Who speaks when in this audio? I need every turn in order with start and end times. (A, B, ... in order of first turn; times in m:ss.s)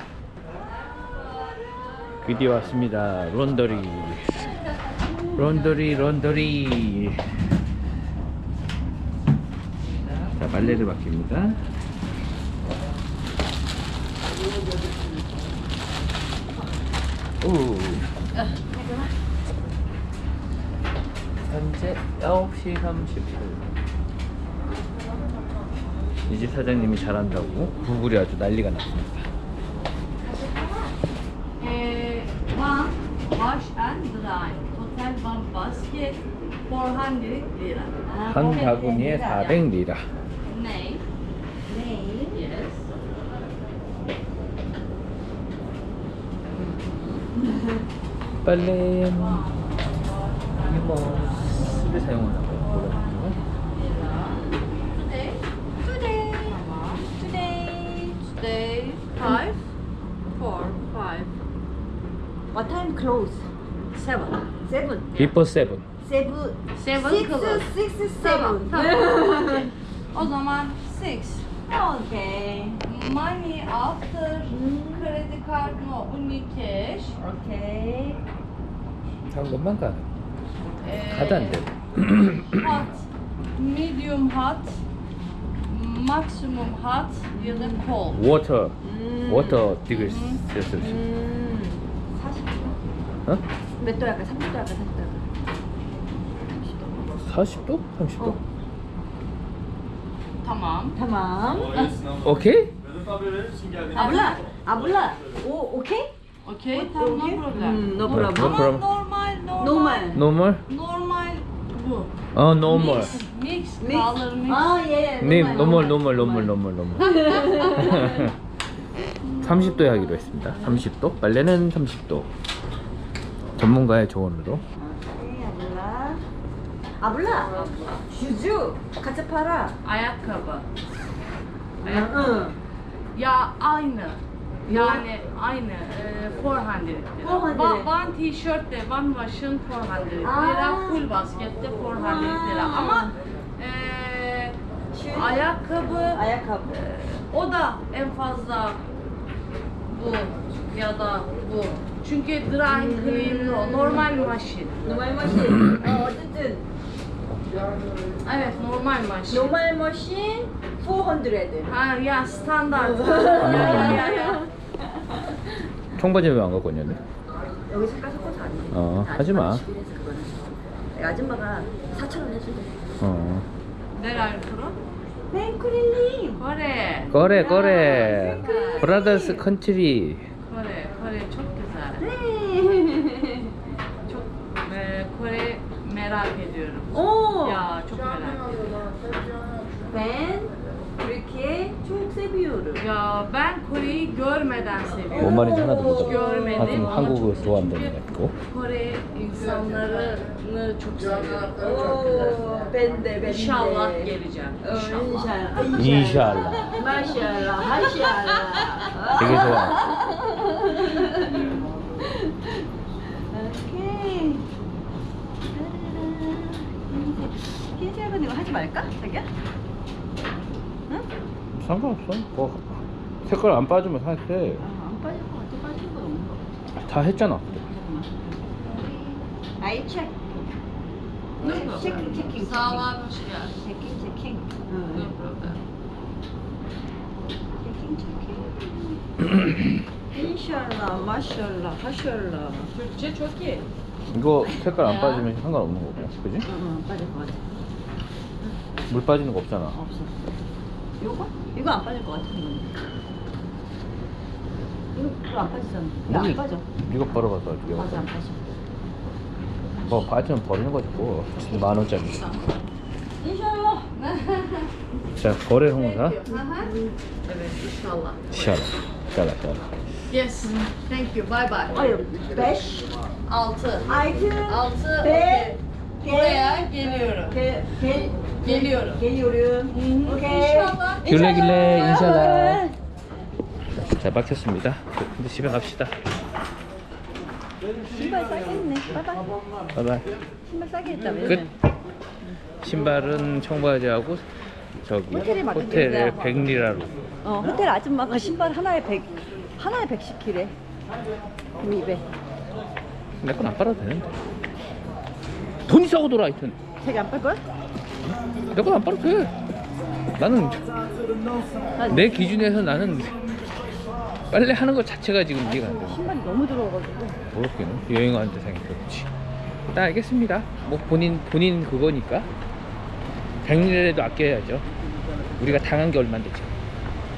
0:02.2-0:04.6 A
0:05.3-0:07.2 A
0:10.3-0:11.6 A
0:17.4-0:18.1 A
0:18.7-0:19.1 B
0:21.4-0:23.7 A
0:26.3-0:29.3 A
0:30.2-0:31.0 B
0:31.6-0:39.6 C
0:38.1-0:39.4 B
0:38.2-0:40.1 A
0:40.4-0:41.0 C
0:41.7-0:42.4 B
0:42.3-0:42.9 C
0:47.4-0:47.8 B
0:48.4-0:49.5 A
0:50.4-0:51.1 C
0:50.6-0:53.4 A
0:53.7-0:55.4 C
0:55.8-0:58.2 B
0:56.4-0:57.1 C
0:58.2-0:59.7 C
1:00.3-1:01.3 C
1:02.5-1:03.4 B
1:03.9-1:04.5 C
1:04.7-1:05.1 B
1:05.1-1:05.4 C
1:05.2-1:05.8 A
1:06.0-1:09.7 B
1:06.8-1:11.5 C
1:11.7-1:12.8 B
1:12.8-1:17.2 C
1:14.5-1:15.2 B
1:17.2-1:18.2 B
1:19.3-1:20.1 A
1:20.8-1:21.6 C
1:21.0-1:22.8 A
1:22.5-1:24.8 C
1:25.7-1:28.2 C
1:27.3-1:27.9 B
1:28.1-1:31.0 A
1:28.8-1:29.8 B
1:29.9-1:30.4 C
1:30.8-1:32.8 B
1:33.8-1:35.3 B
1:36.4-1:37.2 B
1:37.2-1:38.4 A
1:40.4-1:41.0 C
1:41.0-1:42.0 B
1:42.2-1:42.7 A
1:43.9-1:46.1 B
1:43.9-1:44.4 C
1:46.4-1:54.8 C
1:46.7-1:48.7 B
1:48.1-1:48.9 A
1:49.6-1:50.2 B
1:50.1-1:50.6 A
1:52.3-1:53.2 A
1:53.8-1:58.3 B
1:55.2-1:58.4 A
1:57.4-1:58.0 C
1:59.4-2:02.3 A
1:59.6-2:00.9 B
2:03.6-2:04.6 A
2:04.8-2:06.2 B
2:07.0-2:09.8 B
2:07.5-2:08.0 C
2:09.8-2:10.7 C
2:11.8-2:12.5 C
2:11.8-2:12.6 B
2:13.2-2:28.9 C
2:14.7-2:15.1 B
2:17.2-2:17.9 B
2:20.2-2:21.1 B
2:21.9-2:23.2 B
2:24.9-2:26.8 B
2:29.9-2:34.8 C
2:32.7-2:34.1 B
2:34.8-2:36.7 B
2:38.2-2:39.6 C
2:39.3-2:41.8 B
2:41.7-2:44.5 C
2:42.7-2:44.5 B
2:43.4-2:44.1 A
2:45.9-2:47.0 A
2:47.7-2:52.8 B
2:48.7-2:49.6 A
2:53.0-2:53.5 A
2:54.0-2:54.8 C
2:55.3-2:56.4 B
2:56.4-2:57.2 C
2:57.1-3:00.3 A
2:57.1-2:59.5 B
2:57.7-2:59.0 C
3:00.4-3:02.0 C
3:02.0-3:03.6 B
3:04.1-3:09.2 C
3:06.9-3:07.7 B
3:09.8-3:12.8 B
3:12.8-3:22.5 C
3:15.1-3:16.9 B
3:15.2-3:18.4 A
3:21.6-3:34.5 B
3:23.2-3:25.8 C
3:25.7-3:27.0 A
3:26.9-3:29.5 C
3:29.2-3:30.0 A
3:35.5-3:39.3 B
3:41.6-3:44.6 A
3:44.6-3:46.4 B
3:46.8-3:47.6 A
3:47.5-3:50.2 B
3:51.4-3:53.6 C
3:51.4-3:52.9 B
3:53.6-3:55.2 B
3:54.9-3:55.6 C
3:57.6-3:59.0 B
4:00.1-4:02.7 B
4:02.8-4:03.7 C
4:04.1-4:06.5 A
4:04.8-4:05.3 C
4:06.4-4:07.4 B
4:08.9-4:09.8 A
4:09.7-4:10.1 B
4:11.0-4:12.7 B
4:14.9-4:16.7 B
4:16.1-4:18.0 A
4:17.7-4:18.4 B
4:19.8-4:20.1 B
4:19.9-4:22.4 A
4:23.2-4:23.9 B
4:24.0-4:24.7 C
4:25.1-4:26.2 A
4:25.7-4:26.7 C
4:26.3-4:27.0 B
4:27.2-4:28.6 C
4:28.3-4:29.7 A
4:30.1-4:32.0 C
4:31.7-4:33.0 B
4:33.3-4:37.4 C
4:33.9-4:42.8 B
4:38.4-4:39.0 C
4:39.7-4:42.1 C
4:41.0-4:42.7 A
4:43.9-4:45.9 A
4:47.8-4:49.3 B
4:49.8-4:50.1 A
4:50.4-4:51.5 B
4:51.2-4:51.5 A
4:52.6-4:54.2 A
4:54.8-4:56.9 A
4:55.1-4:56.4 B
4:57.2-5:00.6 B
5:01.6-5:02.1 B
5:03.2-5:04.1 A
5:05.7-5:06.6 A
5:06.8-5:07.4 B
5:08.5-5:09.3 A
5:10.2-5:10.7 A
5:11.8-5:12.3 B
5:11.9-5:13.2 A
5:14.3-5:16.0 A
5:15.4-5:17.2 B
5:17.3-5:19.1 A
5:19.7-5:22.3 A
5:23.4-5:24.6 A
5:25.4-5:26.5 A